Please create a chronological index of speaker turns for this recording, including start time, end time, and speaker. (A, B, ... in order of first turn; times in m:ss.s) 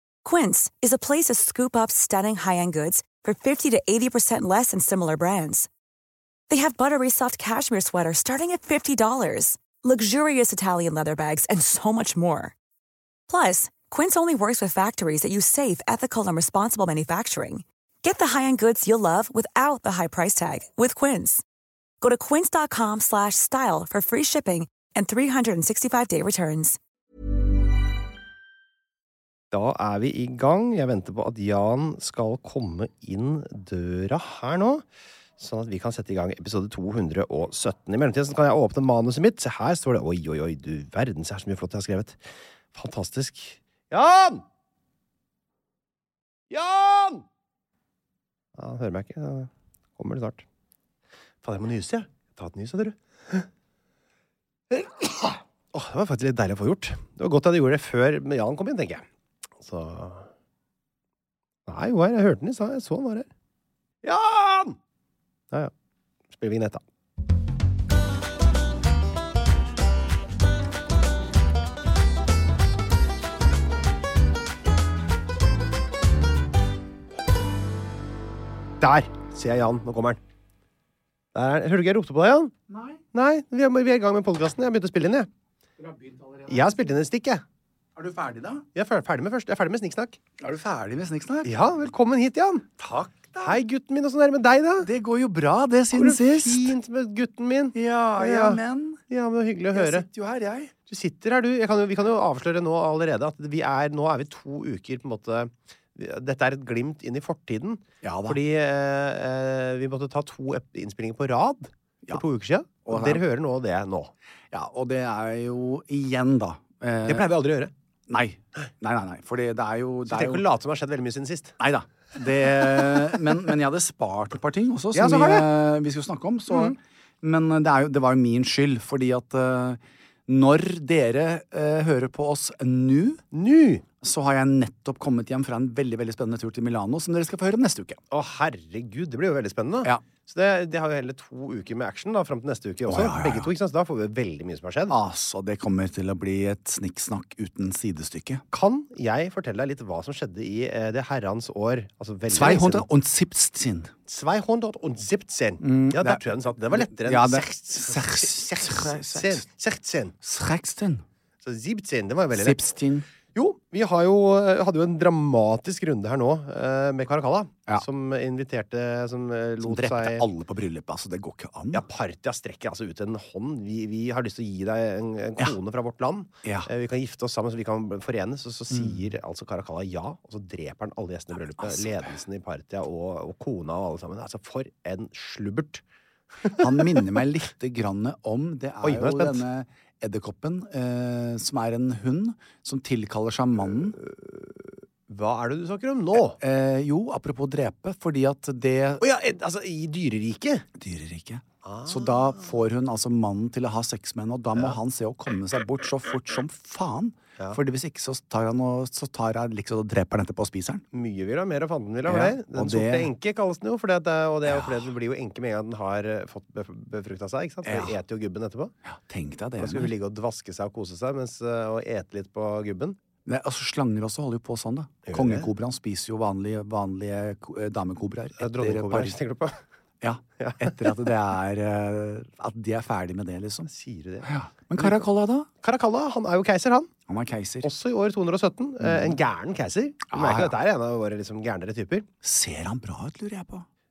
0:00.2-0:05.7 A
0:06.5-0:12.5 A
0:13.3-0:21.4 A
0:22.0-0:26.8 A
0:29.5-0:34.8 B
0:35.4-0:44.4 B
0:46.5-0:47.2 B
0:48.6-0:50.4 B
0:51.4-0:53.5 B
0:54.7-0:59.0 B
0:59.6-1:00.3 B
1:01.6-1:03.3 B
1:04.0-1:04.8 B
1:06.3-1:06.8 B
1:18.8-1:20.2 B
1:21.3-1:22.5 B
1:22.7-1:23.0 C
1:23.1-1:25.3 B
1:25.8-1:26.6 C
1:26.5-1:27.4 B
1:28.0-1:28.6 C
1:28.7-1:30.2 B
1:30.4-1:31.5 C
1:31.4-1:32.7 B
1:32.8-1:33.6 C
1:33.4-1:34.9 B
1:34.8-1:36.8 C
1:35.9-1:40.1 B
1:37.7-1:39.0 C
1:39.7-1:40.7 C
1:40.9-1:54.1 B
1:48.0-1:48.4 C
1:52.8-1:53.2 C
1:54.5-1:57.3 C
1:57.0-1:57.7 B
1:58.1-2:00.4 C
2:00.0-2:01.6 B
2:01.6-2:13.2 C
2:02.6-2:03.1 B
2:04.9-2:05.5 B
2:06.5-2:06.8 B
2:13.3-2:13.8 B
2:14.0-2:18.0 C
2:18.1-2:25.0 B
2:22.9-2:23.5 C
2:24.9-2:28.4 C
2:28.5-2:32.8 B
2:32.3-2:33.9 C
2:34.1-2:40.1 B
2:35.6-2:39.4 C
2:40.2-2:41.0 C
2:41.4-2:42.6 B
2:42.3-2:43.0 C
2:43.3-2:50.2 B
2:49.6-2:51.8 C
2:51.7-3:05.8 B
2:58.7-2:59.0 C
3:01.5-3:01.9 C
3:06.4-3:07.1 B
3:06.6-3:14.0 C
3:08.8-3:09.4 B
3:14.0-3:14.5 B
3:15.1-3:16.4 B
3:16.4-3:19.0 C
3:19.0-3:20.6 B
3:20.8-3:30.8 C
3:21.6-3:22.5 B
3:30.9-3:38.7 B
3:32.1-3:33.1 C
3:34.4-3:34.8 C
3:37.6-3:38.0 C
3:38.8-3:39.9 C
3:39.6-3:43.0 B
3:43.2-3:49.2 C
3:45.1-3:45.5 B
3:48.4-3:49.6 B
3:50.0-3:53.7 C
3:50.4-3:50.9 B
3:53.6-3:55.0 B
3:54.2-3:55.5 C
3:55.6-3:56.9 B
3:57.1-3:57.7 C
3:57.6-4:02.1 B
3:58.8-3:59.2 C
4:00.1-4:00.5 C
4:02.2-4:03.6 C